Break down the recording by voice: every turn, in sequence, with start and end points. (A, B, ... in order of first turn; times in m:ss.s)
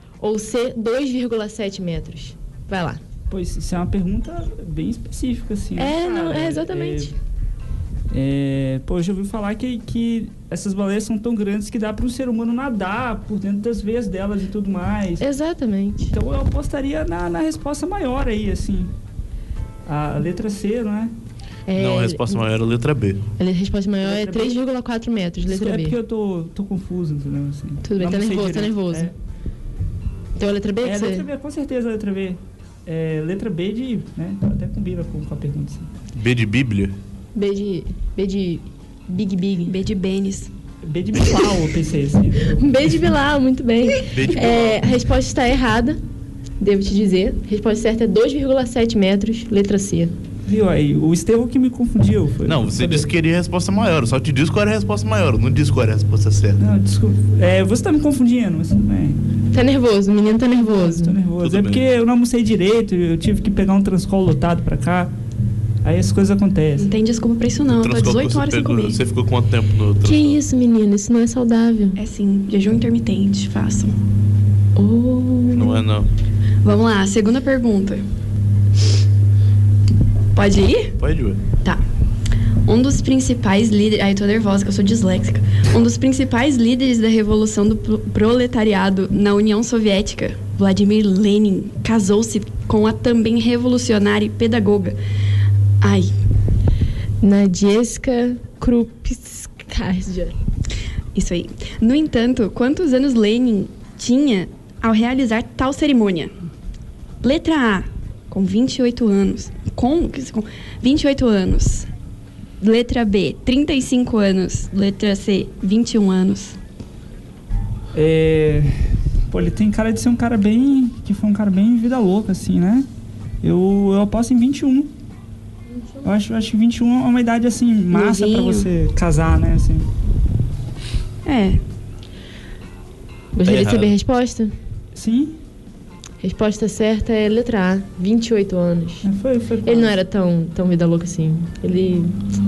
0:00.2-0:03.0 A
0:03.3-0:07.1 B
0:05.8-0:07.2 A
0:08.1-0:15.2 B
0:15.2-0:16.1 A
0:16.1-0:18.9 B
0:19.9-0:21.1 B
0:21.7-0:22.4 A
0:21.8-0:23.2 C
0:23.4-0:26.0 A
0:24.0-0:24.5 B
0:25.5-0:29.1 B
0:27.8-0:29.1 A
0:30.4-0:31.3 A
0:30.8-0:35.9 B
0:36.2-0:37.0 C
0:37.4-0:39.8 A
0:39.7-0:40.5 D
0:40.8-0:42.8 B
0:42.5-0:46.0 A
0:44.1-0:44.8 C
0:46.6-0:50.2 A
0:50.5-0:53.1 B
0:52.5-0:56.6 C
0:56.6-0:59.2 B
0:59.5-1:01.2 A
1:00.7-1:05.1 B
1:01.4-1:01.8 C
1:05.8-1:06.9 B
1:06.8-1:09.0 D
1:07.7-1:10.4 C
1:10.0-1:12.0 A
1:12.0-1:14.0 D
1:14.8-1:15.8 A
1:15.5-1:16.1 C
1:16.6-1:18.0 D
1:20.3-1:21.0 D
1:21.0-1:21.4 C
1:22.6-1:35.0 D
1:35.8-1:36.1 D
1:37.2-1:40.4 A
1:41.1-1:46.3 D
1:47.2-1:51.9 D
1:52.6-1:56.6 D
1:57.9-2:02.9 B
2:03.4-2:04.9 B
2:05.7-2:06.1 A
2:06.0-2:09.9 B
2:07.9-2:08.7 D
2:11.2-2:11.6 D
2:13.3-2:14.5 A
2:13.4-2:13.9 C
2:15.0-2:15.4 B
2:16.2-2:19.1 A
2:19.0-2:20.0 B
2:19.6-2:22.2 A